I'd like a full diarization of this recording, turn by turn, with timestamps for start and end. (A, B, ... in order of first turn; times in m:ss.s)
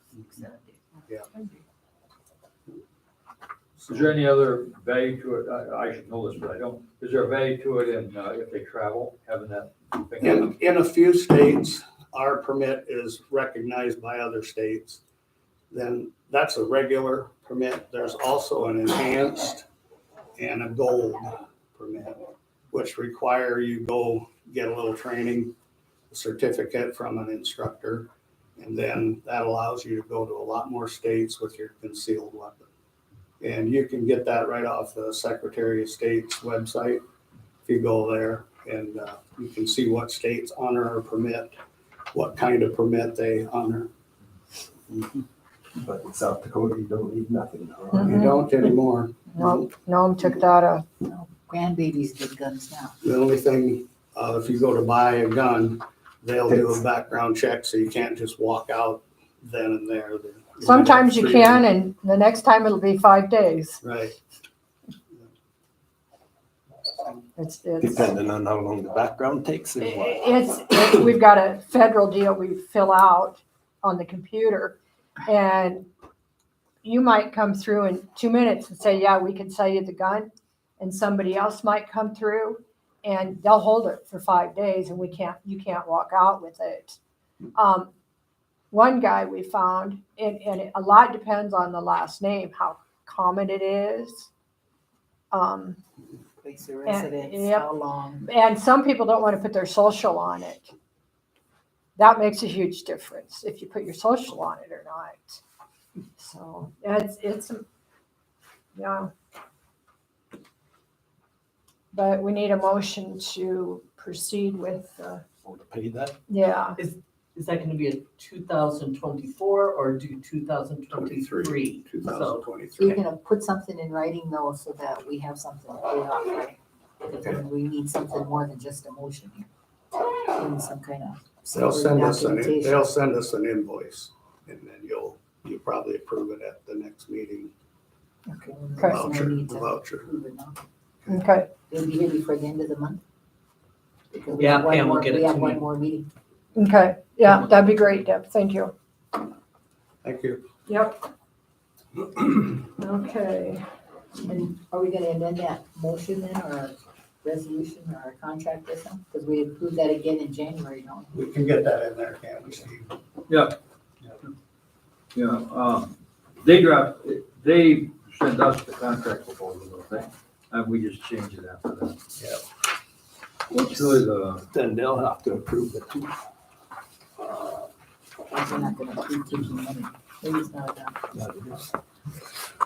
0:00.2-0:01.6 A
0:03.8-0:10.6 B
0:10.2-0:15.0 C
0:15.7-0:19.6 C
0:20.4-0:25.5 C
0:26.1-0:32.7 C
0:33.4-0:37.0 C
0:37.7-0:41.6 C
0:42.1-0:43.9 C
0:45.8-0:48.2 D
0:47.9-0:48.4 E
0:48.0-0:49.7 C
0:49.3-0:50.8 E
0:51.0-0:53.0 A
0:53.0-1:01.7 C
1:00.6-1:03.8 E
1:03.8-1:04.2 C
1:07.4-1:08.1 E
1:07.8-1:10.3 D
1:09.8-1:15.9 E
1:16.8-1:27.0 E
1:27.6-1:27.9 E
1:28.7-1:34.3 E
1:35.3-1:35.8 E
1:36.4-1:38.3 A
1:36.9-1:37.7 E
1:38.3-1:40.7 E
1:42.0-1:45.4 E
1:46.2-1:47.6 E
1:48.8-1:49.1 E
1:51.9-1:55.2 E
1:55.4-1:56.2 D
1:56.3-1:56.8 E
1:56.8-2:03.0 F
2:00.9-2:02.9 C
2:02.8-2:09.5 A
2:10.3-2:12.9 A
2:11.5-2:17.5 C
2:18.3-2:20.6 A
2:18.9-2:20.0 C
2:21.1-2:21.5 E
2:21.7-2:23.0 A
2:24.1-2:26.1 A
2:24.4-2:25.6 F
2:26.5-2:28.7 E
2:27.3-2:27.6 F
2:30.0-2:30.4 C
2:30.7-2:31.0 E
2:32.8-2:33.6 E
2:34.2-2:41.2 A
2:41.1-2:42.9 C
2:43.3-2:43.6 B
2:45.1-2:52.0 B
2:52.2-2:52.4 C
2:53.5-2:54.4 B
2:54.5-2:56.1 D
2:57.2-2:57.6 D
2:58.3-3:01.0 A
3:01.1-3:01.7 D